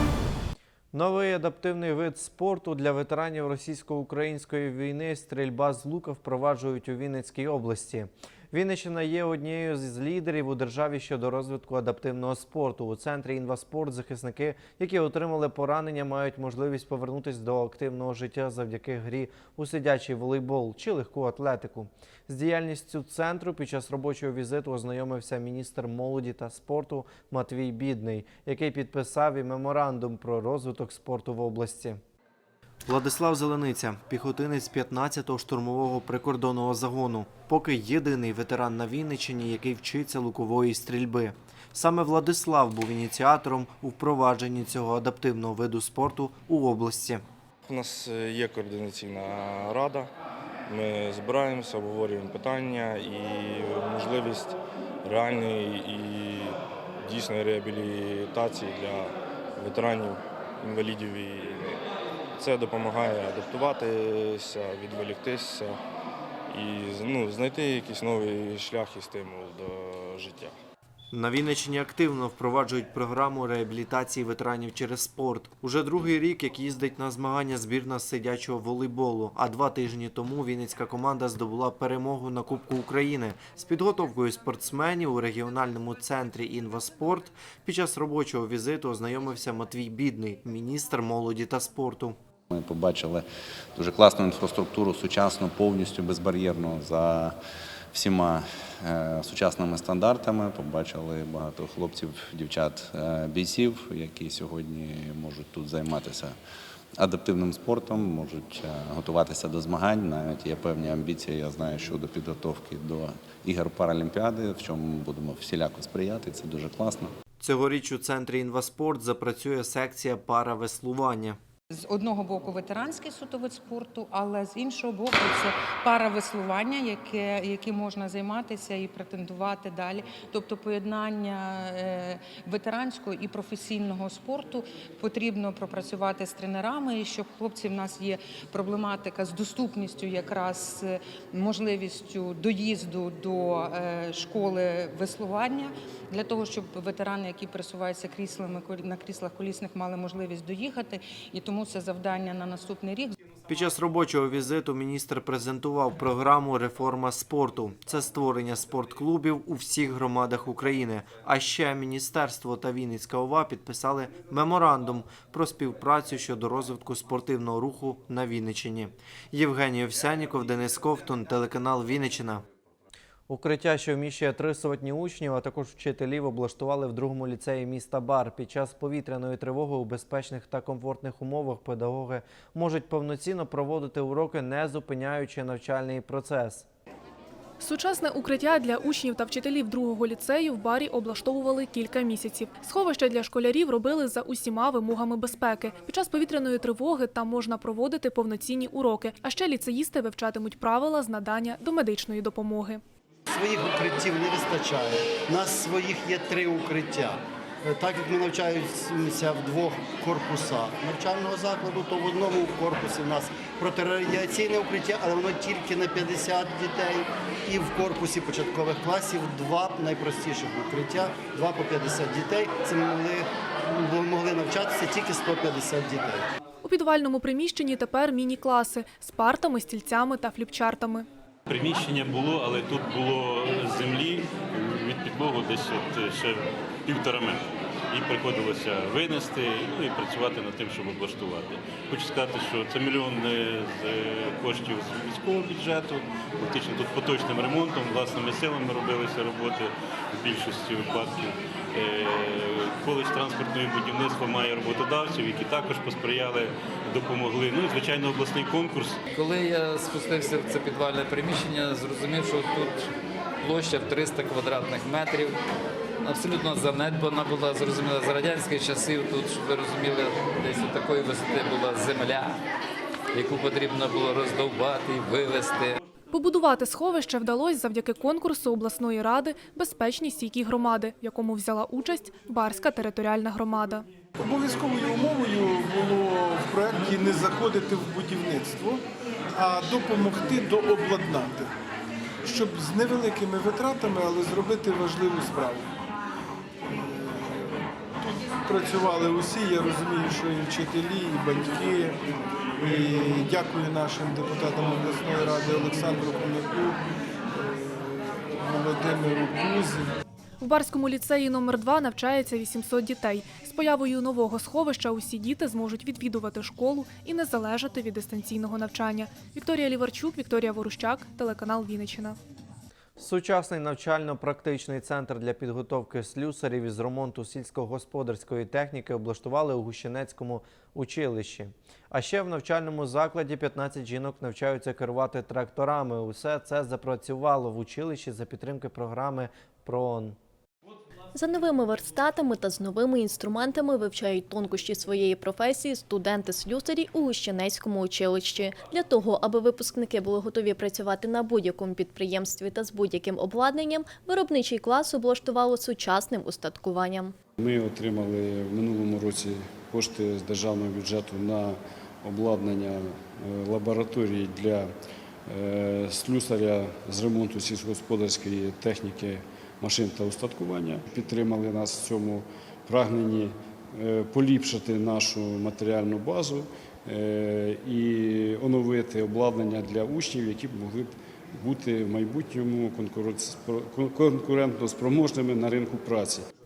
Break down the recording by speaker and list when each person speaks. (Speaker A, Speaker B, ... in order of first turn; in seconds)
Speaker A: 0.9-32.0, 32.8-47.2, 71.1-92.2, 117.4-121.4, 153.5-172.4, 173.3-186.7, 323.0-340.2
Speaker B: 47.7-50.0, 50.7-54.5, 55.1-56.4, 57.1-59.0, 59.6-60.1, 60.6-61.6, 62.4-65.7, 66.5-69.7, 366.1-366.4, 367.9-368.1, 374.1-375.1, 379.8-380.4, 382.4-382.8
Speaker C: 92.5-93.2, 93.8-97.3, 97.9-106.3, 107.0-117.1
Speaker D: 121.7-153.1
Speaker E: 187.6-202.8, 226.6-231.1, 276.1-283.9, 310.4-322.2
Speaker F: 203.3-226.3
Speaker G: 231.5-259.0
Speaker H: 259.1-265.4, 266.0-272.4, 273.1-275.8
Speaker I: 284.2-288.8, 289.4-291.5, 292.2-295.6, 298.0-301.9, 302.6-306.8, 308.4-309.9
Speaker J: 341.1-357.1
Speaker K: 357.4-364.7, 365.3-386.2